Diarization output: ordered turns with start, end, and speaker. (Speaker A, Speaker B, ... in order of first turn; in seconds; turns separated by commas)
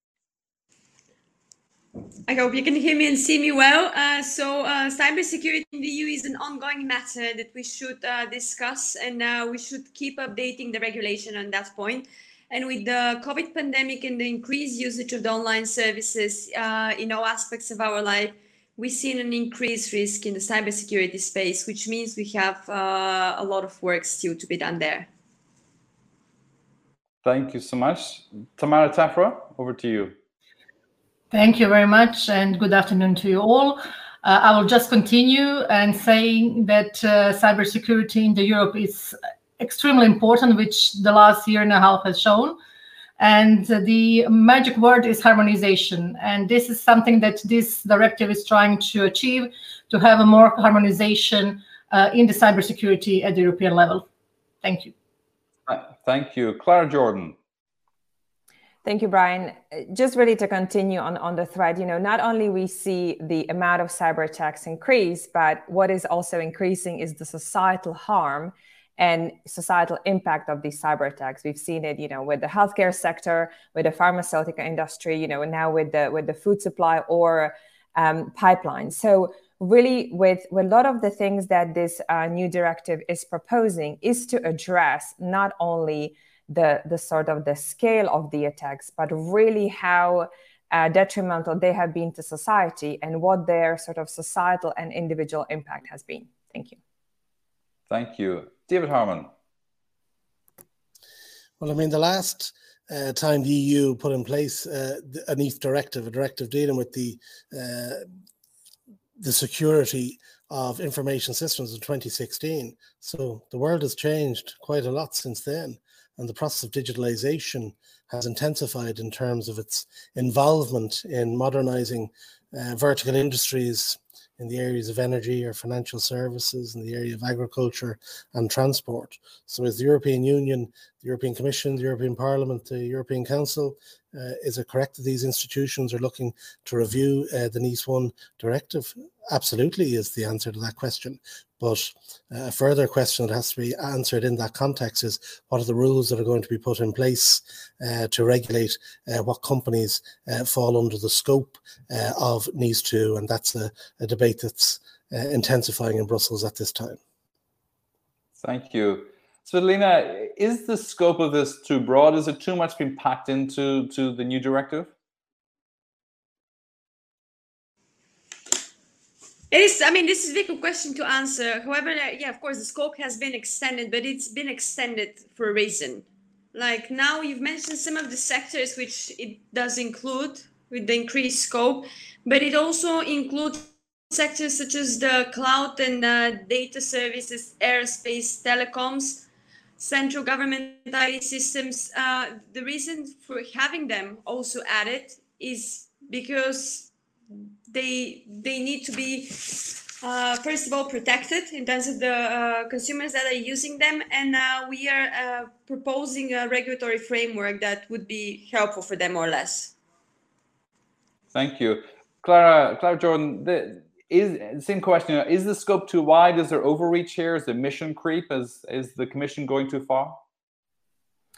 Speaker A: 2.3-25.1, Speaker B: 27.2-30.1, Speaker C: 31.3-42.5, Speaker C: 43.2-54.0, Speaker C: 54.6-54.9, Speaker B: 55.7-57.3, Speaker D: 58.8-96.8, Speaker B: 97.9-99.3, Speaker E: 101.6-108.0, Speaker E: 109.2-157.0, Speaker B: 158.4-164.9, Speaker A: 169.5-189.2, Speaker A: 189.8-196.9, Speaker A: 197.7-209.7, Speaker B: 211.3-220.2